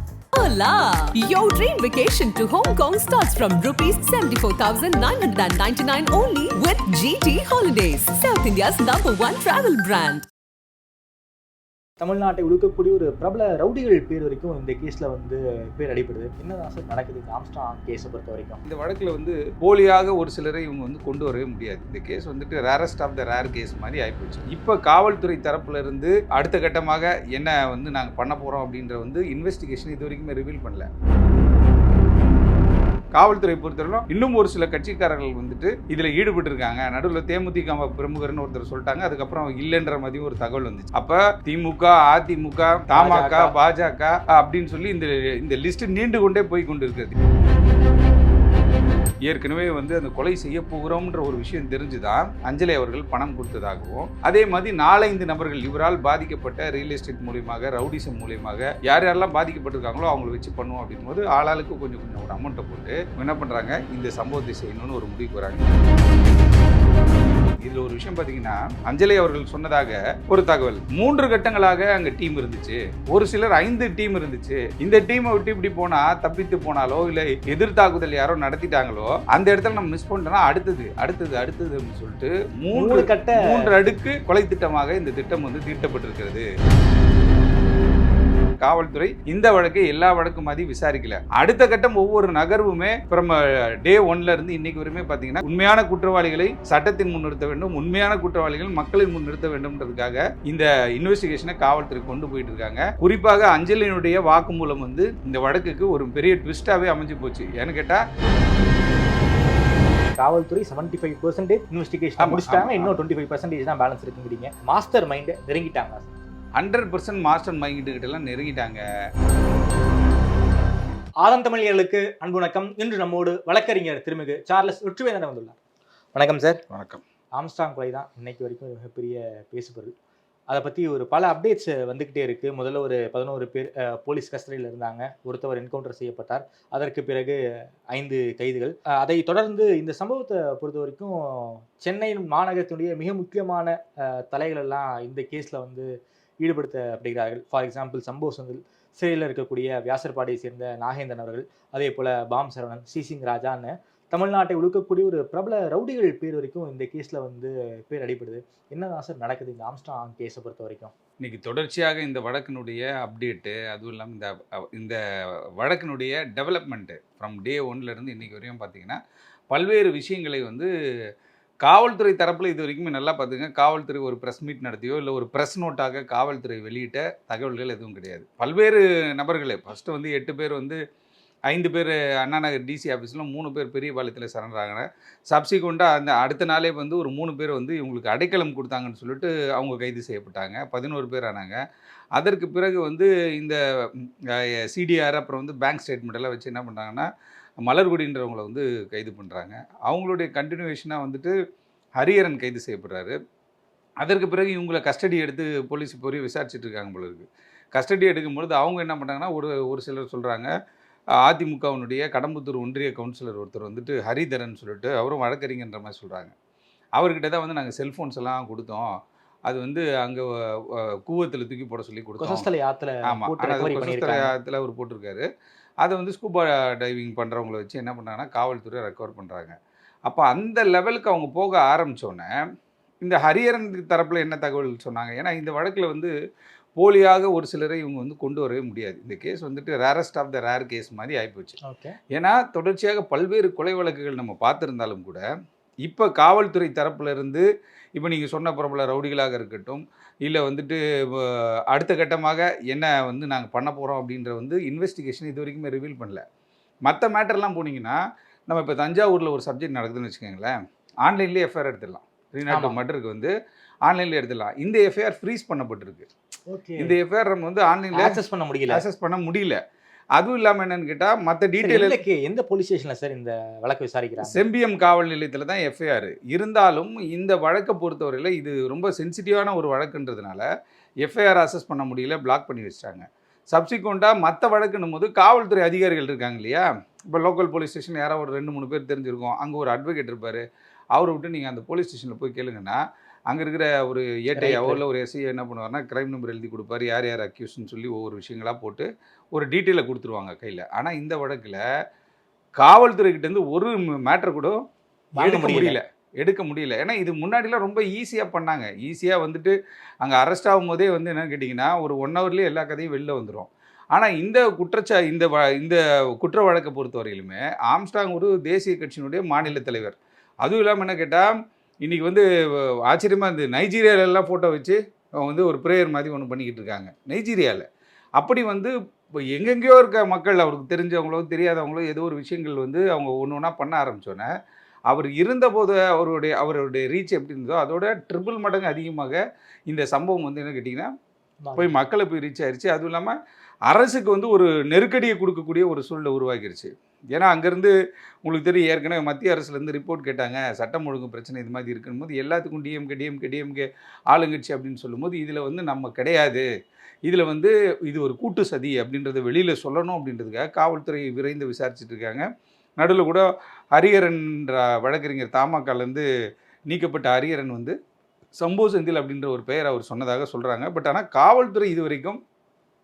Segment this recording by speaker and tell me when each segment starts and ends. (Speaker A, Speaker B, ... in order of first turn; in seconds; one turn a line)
Speaker A: 0.3-10.2
Speaker B: 12.0-18.6
Speaker C: 18.6-30.9
Speaker C: 33.1-47.2
Speaker B: 42.9-43.5
Speaker C: 49.3-65.6
Speaker C: 67.6-86.5
Speaker B: 82.7-83.8
Speaker C: 88.6-108.0
Speaker B: 110.2-116.2
Speaker C: 112.2-112.9
Speaker C: 116.6-118.8
Speaker B: 121.2-125.6
Speaker B: 126.2-126.6
Speaker C: 126.7-127.0
Speaker B: 127.4-129.9
Speaker B: 130.5-137.4
Speaker B: 137.9-145.9
Speaker B: 146.4-160.9
Speaker C: 161.2-165.0
Speaker C: 165.6-169.0
Speaker C: 169.5-170.7
Speaker C: 171.6-180.8
Speaker C: 181.5-191.6
Speaker C: 192.2-197.1
Speaker C: 197.6-201.3
Speaker C: 202.0-203.2
Speaker C: 204.0-210.5
Speaker C: 211.2-216.3
Speaker C: 217.0-218.9
Speaker C: 219.5-222.5
Speaker B: 222.2-224.3
Speaker C: 223.1-225.3
Speaker C: 225.8-232.3
Speaker C: 233.0-236.1
Speaker C: 236.8-241.6
Speaker B: 241.6-242.0
Speaker C: 242.1-245.2
Speaker C: 245.8-256.2
Speaker C: 256.9-263.3
Speaker B: 262.5-262.8
Speaker C: 263.9-266.1
Speaker B: 266.5-267.0
Speaker C: 266.8-269.6
Speaker B: 267.9-268.8
Speaker C: 270.2-272.0
Speaker B: 271.6-274.4
Speaker C: 274.2-280.4
Speaker C: 281.0-290.4
Speaker C: 290.9-301.6
Speaker B: 294.3-294.8
Speaker C: 302.6-304.6
Speaker B: 305.2-305.8
Speaker C: 305.2-321.3
Speaker C: 321.8-322.2
Speaker C: 322.9-327.7
Speaker C: 328.2-328.7
Speaker C: 329.3-334.3
Speaker C: 334.9-340.9
Speaker B: 341.4-341.7
Speaker C: 341.6-343.1
Speaker C: 343.7-347.7
Speaker C: 348.2-356.5
Speaker C: 357.1-362.2
Speaker C: 362.8-366.1
Speaker C: 366.7-367.8
Speaker C: 368.4-372.2